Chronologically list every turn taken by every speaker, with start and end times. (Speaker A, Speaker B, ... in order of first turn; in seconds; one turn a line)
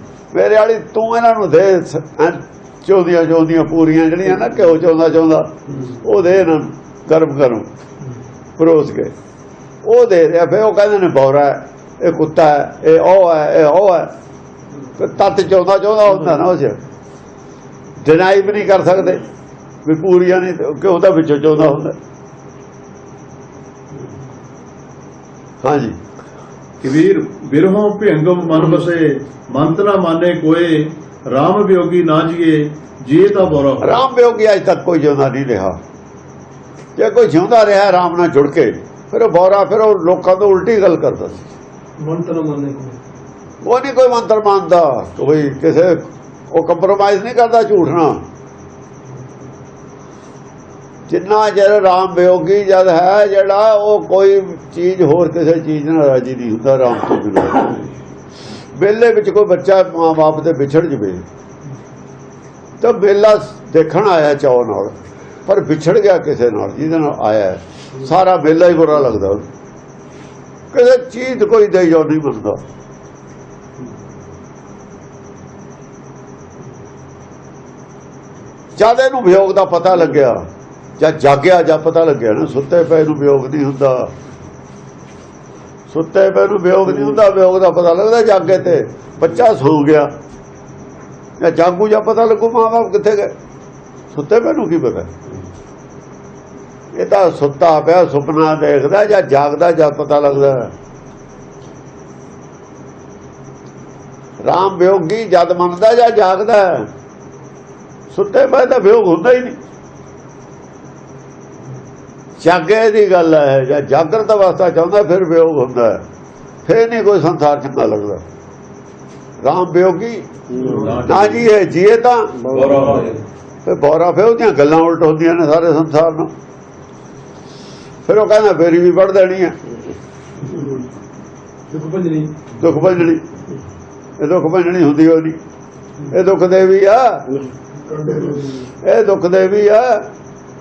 Speaker A: 0.3-7.7
Speaker A: 8.6-9.1
Speaker A: 9.8-14.1
Speaker A: 15.0-16.8
Speaker A: 18.0-19.2
Speaker A: 19.8-22.0
Speaker A: 25.6-26.0
Speaker B: 26.8-34.0
Speaker A: 33.8-35.8
Speaker A: 37.0-41.5
Speaker C: 42.0-43.0
Speaker A: 43.6-48.2
Speaker A: 51.1-57.9
Speaker A: 58.8-61.2
Speaker A: 62.8-64.9
Speaker A: 65.5-69.5
Speaker A: 70.7-72.6
Speaker A: 78.8-80.4
Speaker A: 81.0-84.1
Speaker A: 85.9-90.1
Speaker A: 91.4-93.3
Speaker A: 94.1-95.1
Speaker A: 96.9-100.7
Speaker A: 104.4-106.9
Speaker A: 108.1-109.6
Speaker A: 112.4-116.0
Speaker A: 116.7-118.2
Speaker A: 119.4-120.3
Speaker B: 120.6-121.5
Speaker A: 120.8-122.5
Speaker B: 122.5-123.2
Speaker A: 123.7-126.3
Speaker A: 128.1-129.6
Speaker C: 131.7-132.3
Speaker A: 132.6-133.2
Speaker A: 134.2-135.4
Speaker A: 136.1-137.4
Speaker C: 137.9-138.5
Speaker A: 138.1-140.1